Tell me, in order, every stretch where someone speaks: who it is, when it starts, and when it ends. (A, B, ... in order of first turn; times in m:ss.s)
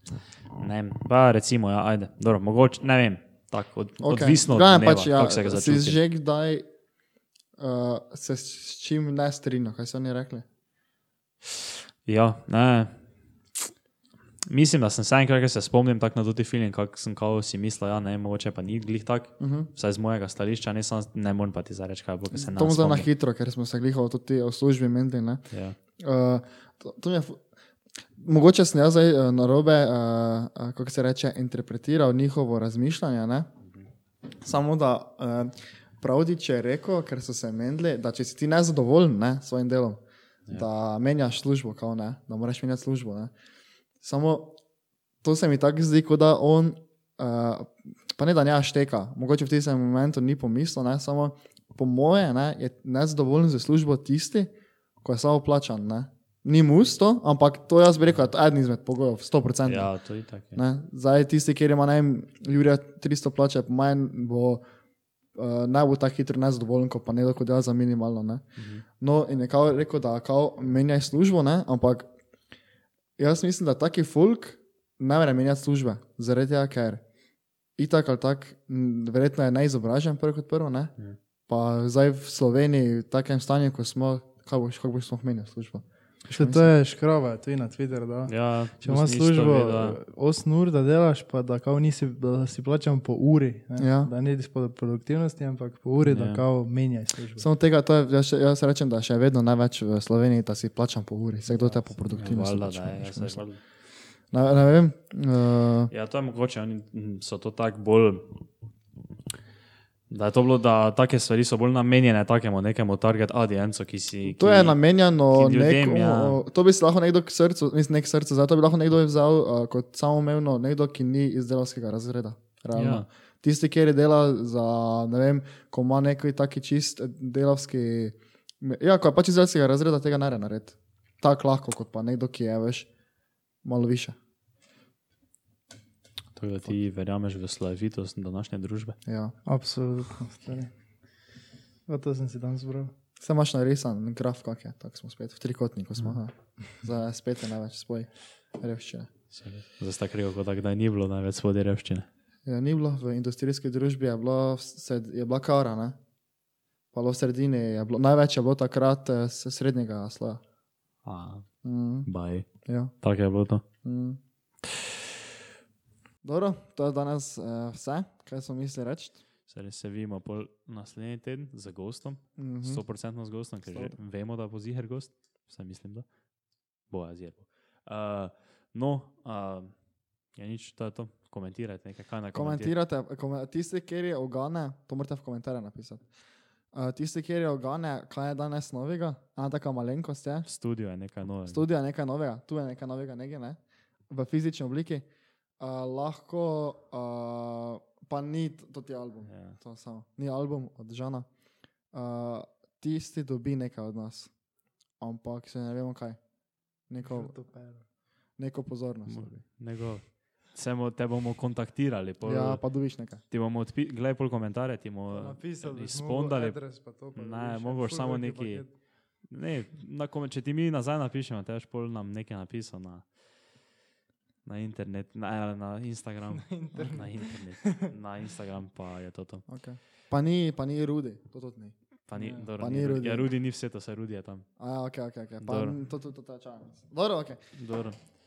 0:00.6-0:06.0 A
0:04.0-0:06.6 B
0:07.6-0:10.4 B
0:12.1-0:13.0 A
0:14.5-0:23.1 A
0:19.4-0:19.7 B
0:22.3-0:25.4 B
0:25.5-0:25.8 A
0:26.0-0:27.4 B
0:28.2-0:33.5 B
0:34.4-0:43.3 B
0:44.0-0:44.6 B
0:45.2-0:54.5 B
0:55.0-0:59.9 B
0:59.6-1:00.6 A
1:00.6-1:04.6 B
1:05.4-1:08.4 B
1:08.6-1:08.8 A
1:09.0-1:12.1 B
1:13.2-1:17.0 B
1:17.8-1:20.9 B
1:21.5-1:26.7 B
1:26.3-1:37.5 C
1:28.3-1:30.0 A
1:33.8-1:34.1 B
1:36.0-1:36.4 A
1:37.4-1:43.4 B
1:42.1-1:43.6 A
1:44.3-1:45.9 B
1:45.9-1:48.3 A
1:50.1-1:54.8 A
1:54.3-2:12.9 B
1:55.3-1:56.4 A
2:02.8-2:03.1 A
2:13.6-2:14.2 B
2:16.4-2:19.0 A
2:19.1-2:19.4 B
2:19.5-2:20.7 C
2:21.9-2:22.9 C
2:23.2-2:29.1 B
2:29.3-2:32.1 A
2:32.5-2:36.0 B
2:36.9-2:40.4 B
2:41.0-2:41.5 A
2:41.6-2:42.1 B
2:42.1-2:42.5 A
2:42.6-2:42.9 B
2:43.0-2:43.6 A
2:43.8-2:44.2 B
2:46.2-2:49.2 B
2:49.5-2:56.1 A
2:52.4-2:52.8 B
2:53.7-2:54.0 B
2:56.9-2:59.7 A
3:00.4-3:02.7 A
3:02.3-3:06.0 B
3:06.7-3:10.5 B
3:10.5-3:11.6 A
3:11.5-3:13.6 B
3:14.1-3:15.0 B
3:15.6-3:21.3 B
3:19.3-3:19.6 A
3:21.9-3:24.3 B
3:25.0-3:26.2 B
3:26.9-3:27.3 B
3:27.0-3:27.8 C
3:28.4-3:29.4 B
3:29.1-3:32.6 A
3:32.2-3:33.2 B
3:33.3-3:36.6 A
3:35.1-3:38.7 C
3:37.1-3:38.6 A
3:39.3-3:43.1 A
3:44.4-3:49.4 A
3:46.4-3:47.9 C
3:49.5-3:51.8 B
3:52.1-3:54.5 A
3:52.2-3:52.5 C
3:52.6-3:53.3 B
3:54.6-3:57.4 B
3:55.4-3:55.8 A
3:57.5-3:58.0 A